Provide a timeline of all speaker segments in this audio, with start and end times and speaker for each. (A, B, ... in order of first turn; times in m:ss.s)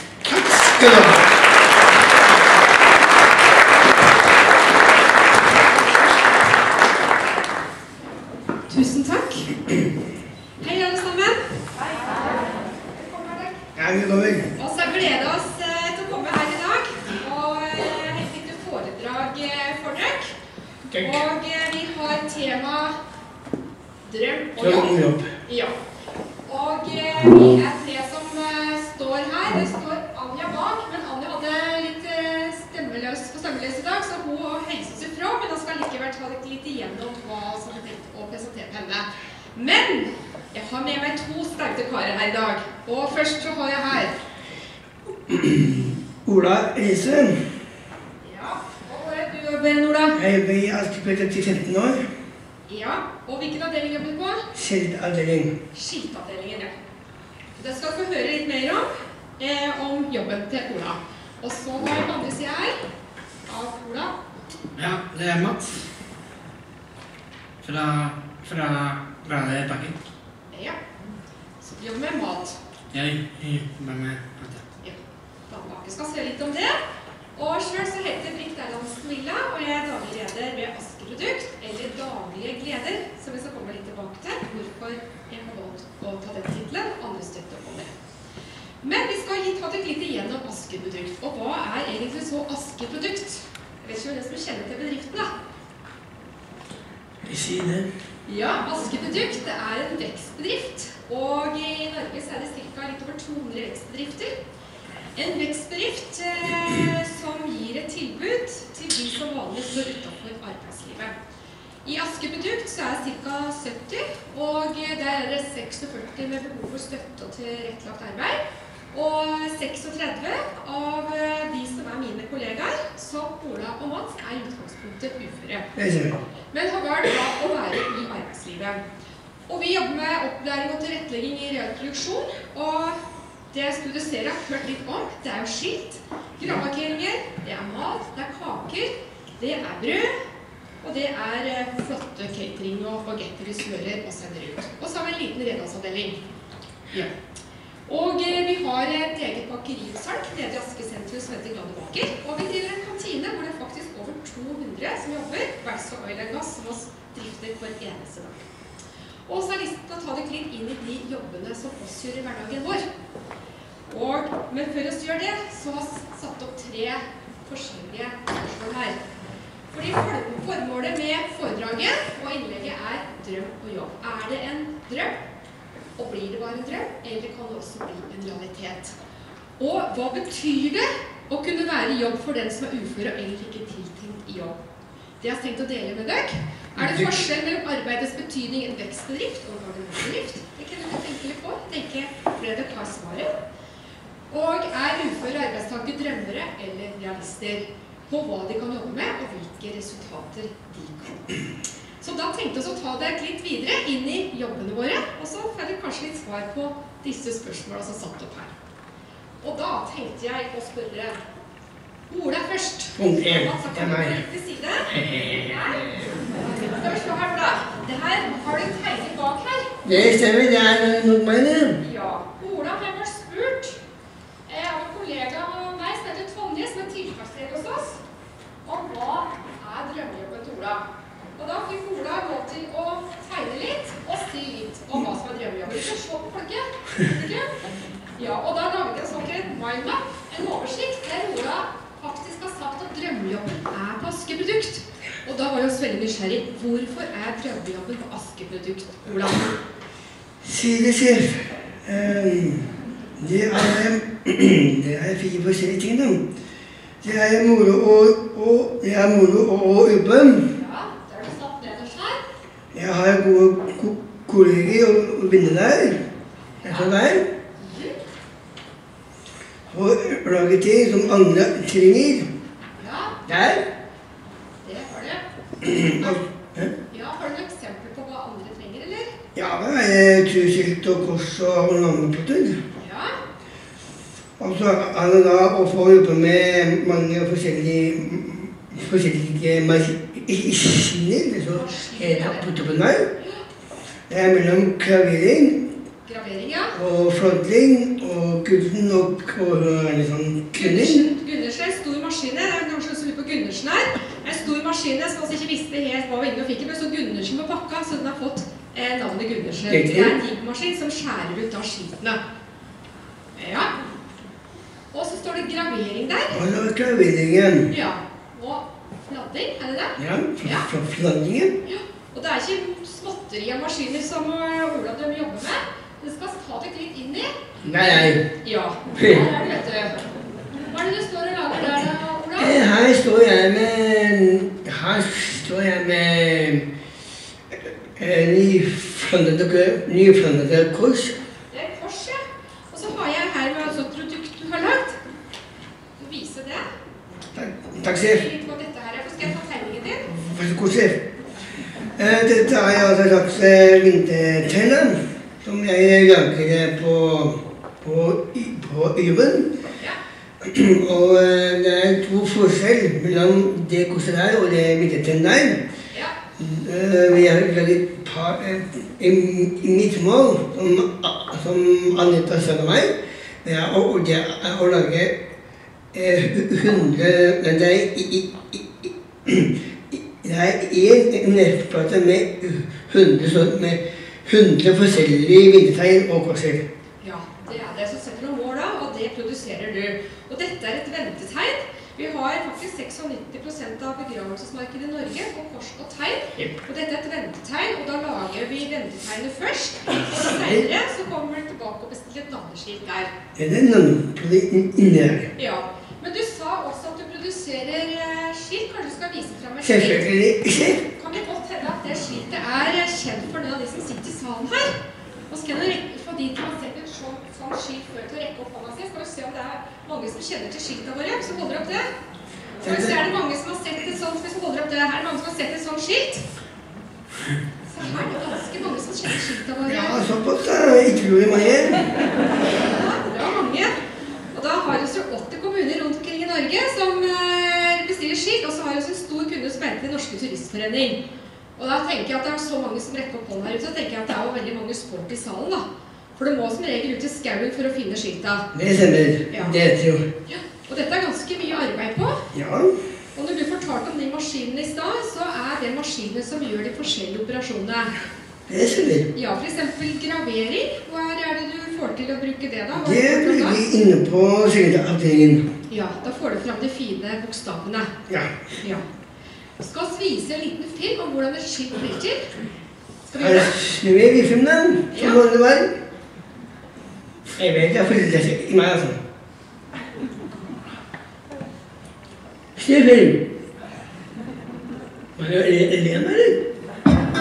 0:00.3-0:01.2 A
0:08.7-0:09.5 B
0:10.6-0:11.4 B
0:12.9-0:13.6 B
0:13.8-0:14.5 A
0:14.6-0:20.4 B
0:20.9-0:21.2 A
0:21.0-0:22.9 B
0:24.1-0:24.9 B
0:24.6-0:25.3 A
0:25.5-0:25.8 B
0:26.5-0:44.2 B
0:45.3-0:47.4 A
0:48.2-0:50.2 B
0:50.2-0:52.0 A
0:52.7-0:54.4 B
0:54.6-0:55.5 A
0:55.7-0:56.8 B
0:57.6-0:58.9 B
0:59.4-1:02.8 B
1:03.5-1:04.1 B
1:04.8-1:05.8 C
1:07.6-1:10.0 C
1:10.5-1:10.8 B
1:11.6-1:12.6 B
1:12.9-1:14.7 C
1:15.5-1:16.8 B
1:17.4-1:27.9 B
1:28.8-1:35.3 B
1:37.3-1:37.9 A
1:38.3-1:44.3 B
1:45.2-1:51.2 B
1:51.8-1:58.4 B
1:58.9-2:05.7 B
2:05.8-2:06.2 A
2:06.5-2:08.8 B
2:09.5-2:13.0 B
2:13.5-2:20.1 B
2:20.8-2:26.2 B
2:27.9-2:38.5 B
2:39.3-2:42.8 B
2:43.9-2:49.0 B
2:49.7-2:55.2 B
2:56.0-2:59.0 B
2:59.6-3:04.6 B
3:05.2-3:13.3 B
3:06.8-3:07.0 A
3:14.3-3:21.3 B
3:22.0-3:28.5 B
3:29.4-3:31.2 B
3:32.1-3:34.9 B
3:33.0-3:34.2 A
3:34.9-3:35.6 A
3:35.4-3:35.8 B
3:36.4-3:39.7 B
3:39.8-3:41.8 A
3:41.8-3:43.8 B
3:44.5-3:48.0 B
3:48.6-3:50.8 B
3:51.4-3:57.5 B
3:58.2-4:09.5 B
4:10.4-4:12.7 A
4:13.2-4:16.2 A
4:17.0-4:20.4 A
4:20.4-4:22.2 B
4:22.7-4:26.0 A
4:26.6-4:27.0 B
4:26.6-4:27.2 A
4:27.6-4:28.0 B
4:29.7-4:32.3 A
4:32.8-4:33.2 B
4:33.3-4:33.7 A
4:34.6-4:35.2 B
4:35.6-4:36.7 A
4:36.9-4:39.1 B
4:39.4-4:42.6 A
4:42.8-4:43.2 B
4:44.4-4:53.1 A
4:51.5-4:52.6 B
4:53.2-4:53.4 B
4:54.1-4:55.6 A
4:56.1-4:56.8 B
4:56.8-5:01.0 A
5:00.6-5:12.2 B
5:09.7-5:10.1 A
5:13.4-5:13.7 B
5:14.9-5:16.4 B
5:16.3-5:17.7 A
5:17.7-5:20.7 B
5:20.0-5:21.5 A
5:21.6-5:30.0 B
5:27.6-5:28.2 A
5:29.0-5:29.2 A
5:30.6-5:32.6 B
5:32.4-5:36.7 A
5:38.0-5:41.2 A
5:41.5-5:45.0 B
5:46.0-5:46.6 B
5:47.3-5:48.2 A
5:48.0-5:50.1 B
5:50.1-5:51.0 A
5:52.0-5:59.5 A
6:00.4-6:05.6 A
6:06.4-6:12.9 A
6:13.4-6:15.1 A
6:15.9-6:26.6 A
6:27.0-6:43.1 B
6:40.1-6:40.6 A
6:43.4-6:45.3 A
6:45.4-6:50.1 B
6:49.6-6:50.8 A
6:50.9-6:54.8 B
6:55.3-7:01.9 B
7:02.6-7:03.0 A
7:02.6-7:06.2 B
7:07.7-7:10.0 B
7:09.7-7:11.9 A
7:12.6-7:13.7 B
7:14.3-7:21.0 B
7:21.6-7:28.5 B
7:28.5-7:30.0 A
7:29.3-7:29.6 B
7:30.3-7:32.2 B
7:32.3-7:32.7 A
7:33.2-7:37.9 B
7:38.5-7:39.1 A
7:39.1-7:43.6 B
7:42.8-7:45.4 A
7:45.7-7:47.9 B
7:48.1-7:48.3 A
7:49.6-7:52.3 B
7:53.1-7:53.6 B
7:53.2-7:55.7 A
7:54.9-7:55.2 B
7:57.4-7:59.0 A
8:02.6-8:03.2 A
8:05.2-8:06.4 A